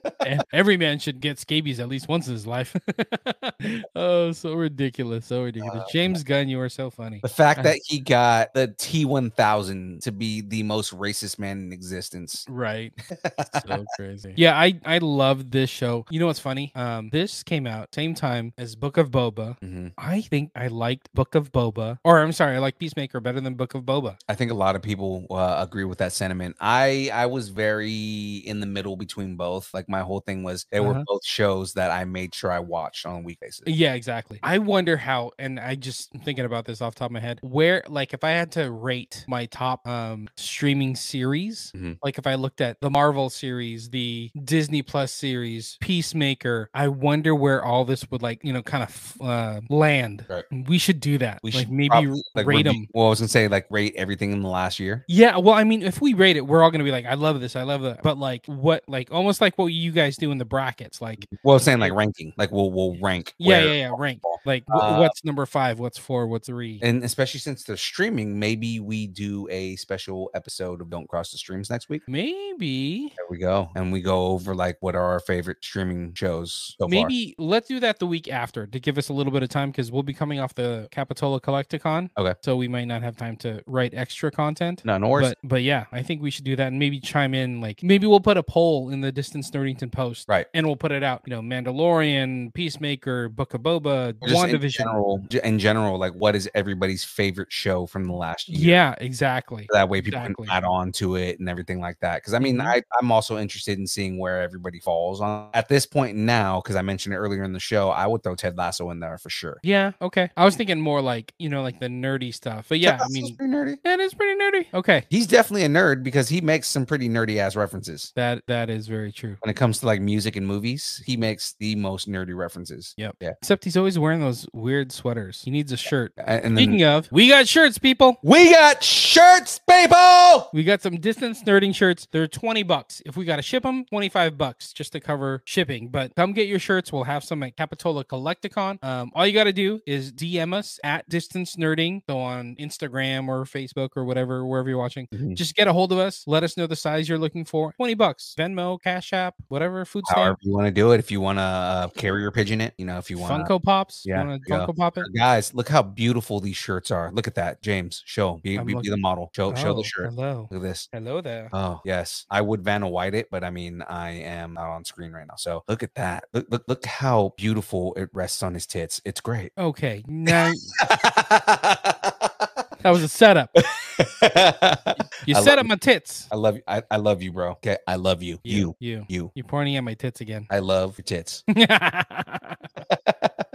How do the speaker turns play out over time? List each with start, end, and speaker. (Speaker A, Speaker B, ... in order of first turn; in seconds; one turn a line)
Speaker A: 0.2-7.8
Speaker B: 5.6-6.2
Speaker B: 7.2-12.5
Speaker A: 12.5-13.0
Speaker B: 13.1-13.8
Speaker A: 13.6-24.2
Speaker B: 19.6-19.9
Speaker B: 24.3-33.7
Speaker A: 30.8-31.1
Speaker A: 33.6-52.9
Speaker B: 41.7-42.0
Speaker B: 51.4-55.0
Speaker A: 55.1-62.0
Speaker B: 61.3-65.1
Speaker A: 63.4-66.8
Speaker B: 66.8-72.0
Speaker A: 72.1-73.2
Speaker B: 73.2-77.1
Speaker A: 76.9-95.0
Speaker B: 84.8-85.3
Speaker B: 94.2-98.8
Speaker A: 98.5-100.6
Speaker B: 99.7-109.6
Speaker A: 102.4-102.8
Speaker A: 109.6-115.1
Speaker B: 112.8-113.8
Speaker B: 115.1-118.1
Speaker A: 118.2-119.4
Speaker B: 119.4-123.4
Speaker A: 123.0-128.2
Speaker B: 126.2-126.8
Speaker B: 128.2-130.5
Speaker A: 130.5-150.4
Speaker B: 145.1-145.4
Speaker B: 150.1-153.5
Speaker A: 153.2-155.1
Speaker B: 154.0-160.9
Speaker A: 158.6-161.5
Speaker B: 161.5-169.5
Speaker A: 169.6-170.7
Speaker B: 170.3-172.5
Speaker A: 172.8-173.5
Speaker B: 173.6-175.7
Speaker A: 175.2-176.3
Speaker B: 176.3-179.3
Speaker A: 178.4-180.5
Speaker B: 180.5-181.4
Speaker A: 181.5-182.6
Speaker B: 182.9-183.5